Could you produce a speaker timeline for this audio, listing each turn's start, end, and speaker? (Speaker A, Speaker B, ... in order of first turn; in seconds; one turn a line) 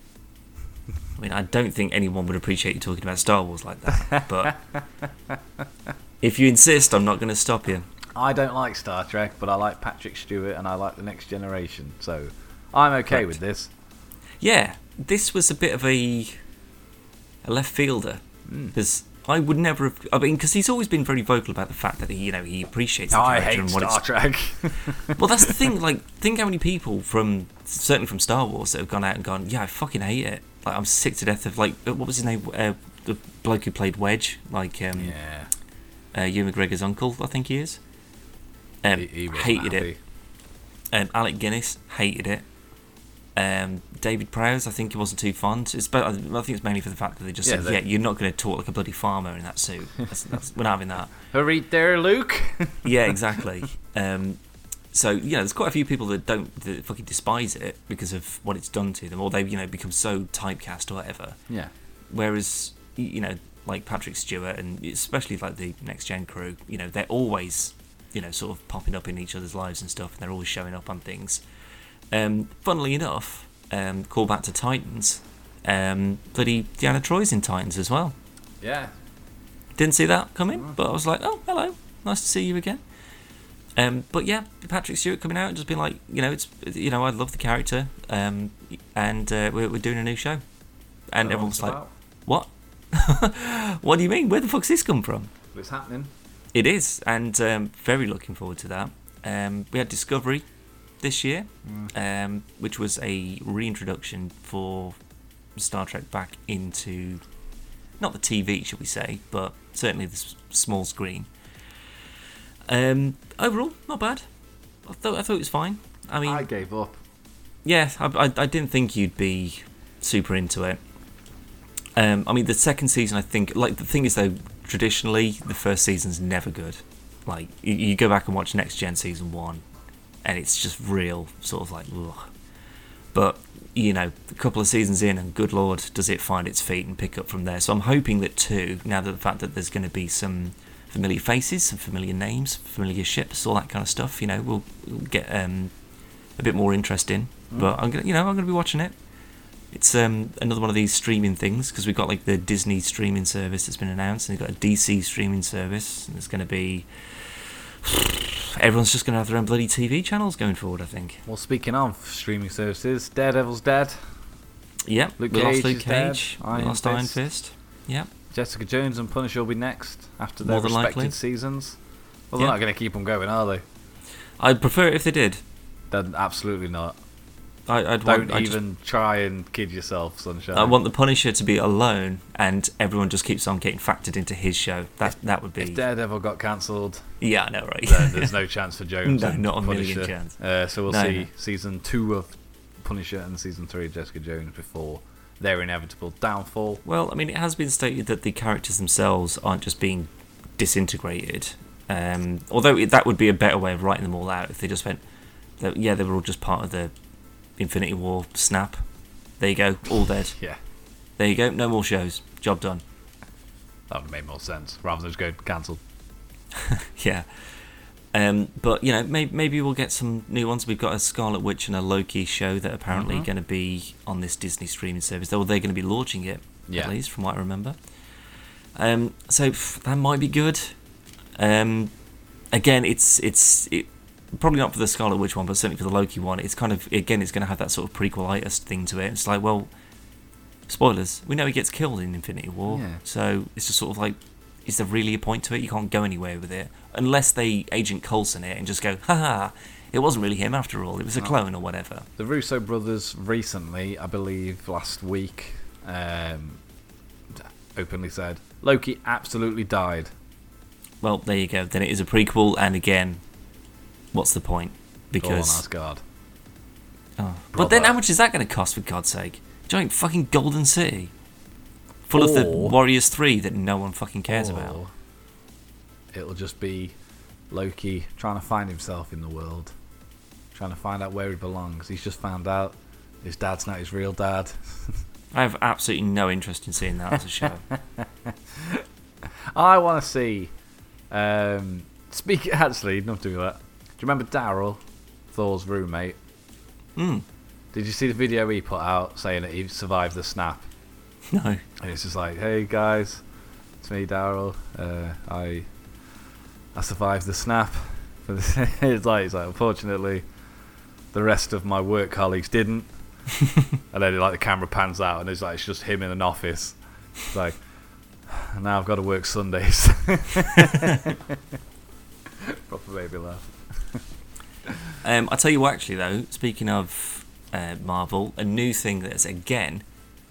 Speaker A: 1.2-4.5
Speaker B: 3.9-4.8
Speaker A: 6.2-7.8
Speaker B: 8.2-13.7
Speaker A: 13.1-13.4
Speaker A: 14.4-16.4
Speaker A: 17.4-18.2
Speaker B: 18.5-18.7
Speaker A: 18.7-24.0
Speaker B: 23.1-25.7
Speaker A: 25.0-35.1
Speaker B: 34.9-35.5
Speaker A: 36.1-37.8
Speaker A: 38.8-39.9
Speaker B: 38.9-40.0
Speaker A: 40.9-42.4
Speaker A: 43.4-51.1
Speaker B: 47.4-47.8
Speaker B: 51.3-53.2
Speaker A: 52.8-54.4
Speaker A: 54.9-61.4
Speaker A: 62.1-71.4
Speaker A: 72.1-78.2
Speaker B: 78.6-78.9
Speaker A: 79.8-82.8
Speaker A: 83.8-90.4
Speaker A: 91.1-95.3
Speaker B: 91.2-91.9
Speaker B: 95.5-96.1
Speaker A: 96.5-100.4
Speaker A: 101.0-105.0
Speaker B: 101.6-101.9
Speaker A: 105.6-107.2
Speaker A: 108.0-111.3
Speaker A: 112.7-114.2
Speaker A: 114.8-116.5
Speaker B: 116.2-116.9
Speaker A: 117.6-120.8
Speaker A: 122.0-129.6
Speaker A: 130.2-132.3
Speaker A: 133.1-145.7
Speaker A: 146.4-148.9
Speaker A: 149.7-161.2
Speaker B: 161.2-164.0
Speaker A: 164.8-168.1
Speaker B: 165.2-167.2
Speaker B: 168.3-171.8
Speaker A: 170.4-171.2
Speaker B: 172.3-173.6
Speaker A: 174.4-175.4
Speaker B: 175.9-176.9
Speaker A: 177.7-178.6
Speaker B: 178.0-180.8
Speaker A: 180.5-185.8
Speaker B: 185.6-187.1
Speaker A: 187.2-188.3
Speaker B: 187.8-192.3
Speaker A: 189.0-191.3
Speaker B: 192.8-196.8
Speaker A: 196.8-205.0
Speaker A: 205.6-206.9
Speaker A: 207.6-208.8
Speaker A: 209.4-210.3
Speaker A: 211.2-212.8
Speaker B: 213.9-215.8
Speaker A: 216.5-217.3
Speaker A: 218.1-227.8
Speaker B: 222.9-223.3
Speaker B: 226.7-226.9
Speaker A: 228.8-230.8
Speaker A: 231.3-231.9
Speaker A: 232.5-239.7
Speaker A: 240.7-252.1
Speaker B: 242.7-243.0
Speaker B: 252.2-256.6
Speaker B: 257.4-260.1
Speaker A: 261.0-263.2
Speaker A: 264.1-265.6
Speaker B: 265.2-266.0
Speaker A: 267.2-271.1
Speaker B: 267.5-268.0
Speaker A: 272.1-274.8
Speaker B: 272.1-272.8
Speaker B: 274.3-274.9
Speaker B: 276.1-276.9
Speaker B: 277.5-279.7
Speaker B: 280.5-284.9
Speaker A: 285.3-287.6
Speaker B: 287.7-288.8
Speaker B: 289.5-290.5
Speaker B: 291.1-294.8
Speaker B: 295.3-296.2
Speaker A: 296.9-297.2
Speaker B: 297.7-300.7
Speaker A: 301.3-301.6
Speaker B: 301.8-303.2
Speaker B: 303.8-305.7
Speaker B: 306.8-310.2
Speaker B: 311.1-312.9
Speaker B: 313.9-317.6
Speaker B: 318.3-321.4
Speaker B: 322.4-324.0
Speaker B: 324.7-324.9
Speaker A: 325.0-329.8